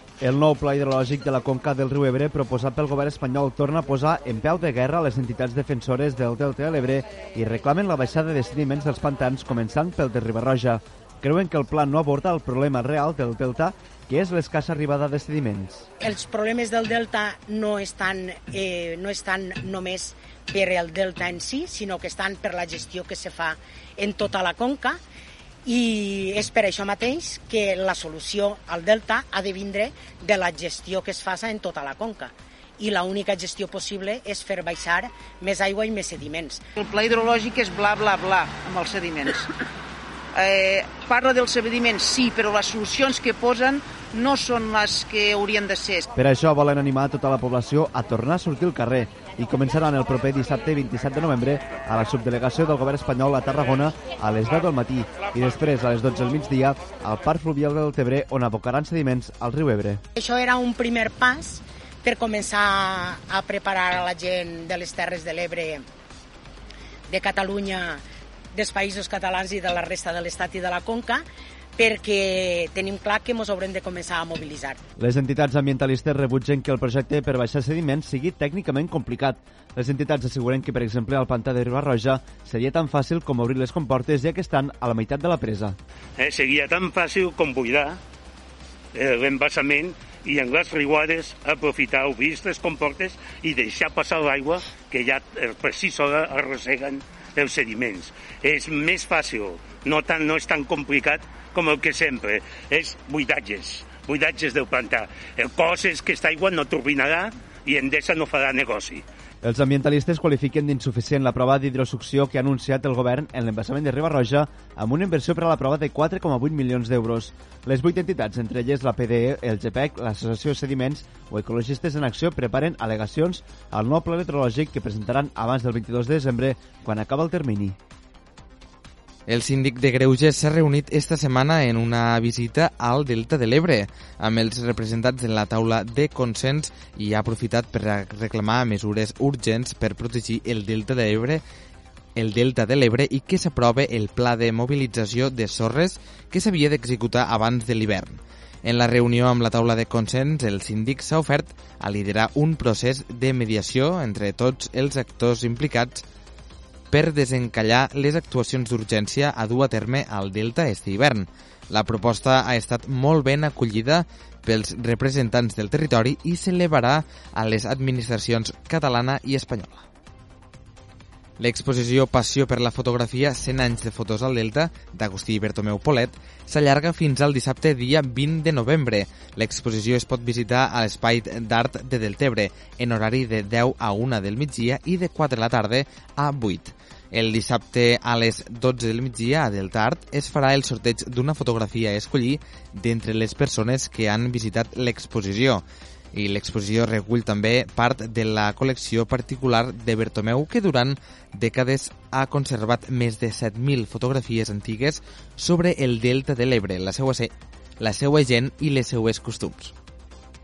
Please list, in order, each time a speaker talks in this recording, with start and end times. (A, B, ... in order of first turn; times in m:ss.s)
0:00.2-0:15.9 A
0:16.0-0:25.0 B
0:25.6-0:36.6 B
0:36.8-0:39.5 C
0:40.3-0:46.1 C
0:46.2-1:00.0 A
1:00.2-1:05.8 B
1:07.1-1:11.2 B
1:11.8-1:14.8 B
1:15.0-1:25.8 A
1:26.2-1:28.0 D
1:28.9-1:49.0 D
1:49.4-2:07.8 A
2:09.3-2:21.4 E
2:22.2-2:36.0 E
2:36.9-2:49.8 E
2:51.4-3:29.7 E